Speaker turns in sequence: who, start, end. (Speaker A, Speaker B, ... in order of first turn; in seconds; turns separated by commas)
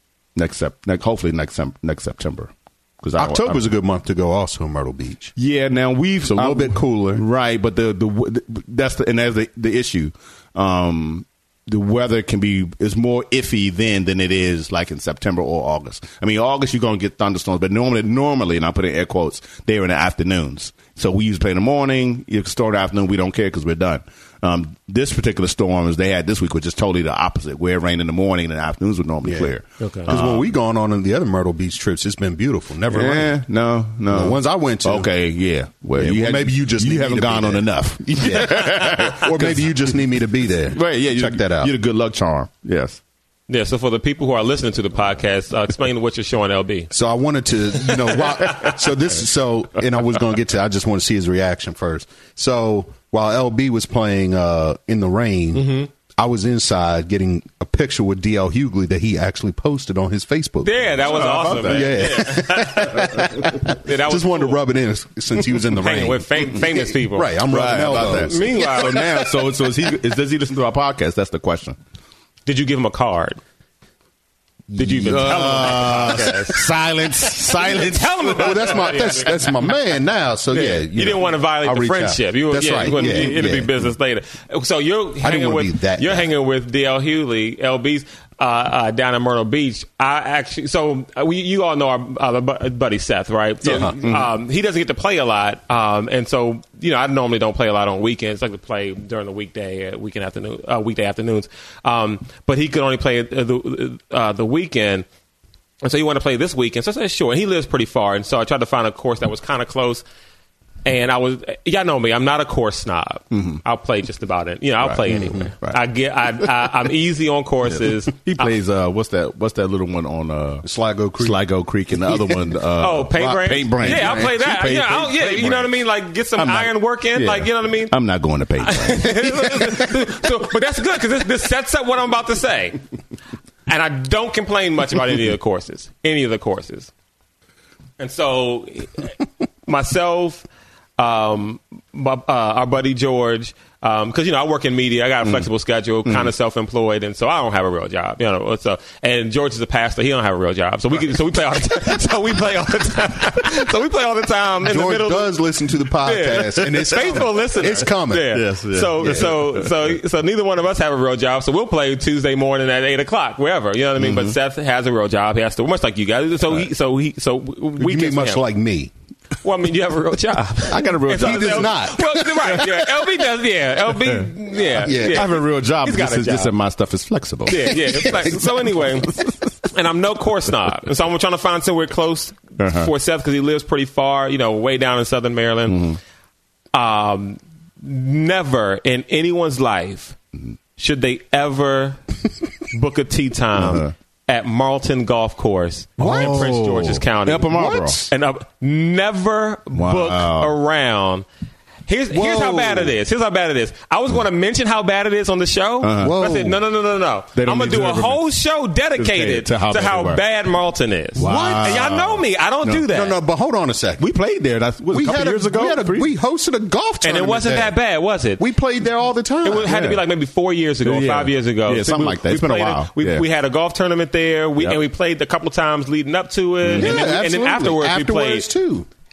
Speaker A: 0.3-3.7, Speaker B: 3.2-5.3, Speaker A: 5.3-30.4, Speaker B: 6.2-7.2, Speaker B: 29.2-29.5, Speaker C: 29.8-30.1, Speaker B: 30.1-33.3, Speaker A: 32.9-39.8, Speaker B: 34.1-35.1, Speaker B: 36.0-41.7, Speaker A: 40.7-43.0, Speaker C: 43.5-46.9, Speaker B: 46.9-68.6, Speaker C: 48.1-48.8, Speaker C: 55.5-55.9, Speaker C: 60.6-64.6, Speaker A: 61.0-62.1, Speaker C: 65.7-67.4, Speaker A: 67.5-71.8, Speaker C: 67.9-69.2, Speaker C: 72.5-73.4, Speaker B: 74.7-76.1, Speaker C: 74.8-76.6, Speaker A: 75.0-78.8, Speaker C: 77.5-79.7, Speaker B: 78.3-83.7, Speaker C: 80.5-105.0, Speaker B: 85.2-86.3, Speaker B: 93.6-93.9, Speaker A: 94.0-94.3, Speaker C: 105.8-110.0, Speaker C: 110.8-118.5, Speaker A: 113.3-113.6, Speaker A: 114.8-115.8, Speaker B: 115.1-115.5, Speaker A: 117.7-120.6, Speaker B: 120.6-121.4, Speaker A: 121.2-125.7, Speaker C: 122.8-127.9, Speaker B: 123.8-124.3, Speaker A: 126.4-129.8, Speaker C: 128.6-132.8, Speaker C: 133.7-136.9, Speaker C: 138.0-139.1, Speaker C: 139.7-140.4, Speaker C: 141.0-155.3, Speaker B: 154.6-158.4, Speaker C: 156.0-168.4, Speaker A: 158.3-159.7, Speaker B: 159.0-159.3, Speaker A: 164.0-164.3, Speaker B: 167.8-168.9, Speaker C: 169.4-176.5, Speaker A: 170.7-171.7, Speaker B: 171.1-172.7, Speaker A: 174.0-174.3, Speaker B: 174.7-175.3, Speaker A: 174.9-178.1, Speaker C: 177.4-185.9, Speaker B: 177.9-178.4, Speaker A: 179.0-179.3, Speaker A: 182.6-182.9, Speaker A: 185.7-186.0, Speaker C: 186.7-190.2, Speaker C: 190.8-192.0, Speaker C: 192.7-201.2, Speaker A: 193.6-193.9, Speaker B: 196.0-196.6, Speaker A: 196.0-198.0, Speaker B: 197.5-198.1, Speaker A: 199.7-200.5, Speaker C: 201.9-213.2, Speaker B: 202.1-202.9, Speaker A: 205.8-206.2, Speaker B: 206.0-206.6, Speaker A: 207.3-208.2, Speaker A: 209.0-210.2, Speaker B: 211.2-211.9, Speaker A: 211.2-212.8, Speaker B: 212.9-214.1, Speaker A: 214.0-216.1, Speaker B: 214.9-217.7, Speaker C: 217.0-218.4, Speaker B: 218.4-219.7, Speaker C: 219.4-228.5, Speaker A: 219.7-220.0, Speaker A: 220.8-223.2, Speaker A: 226.6-227.0, Speaker B: 226.8-228.9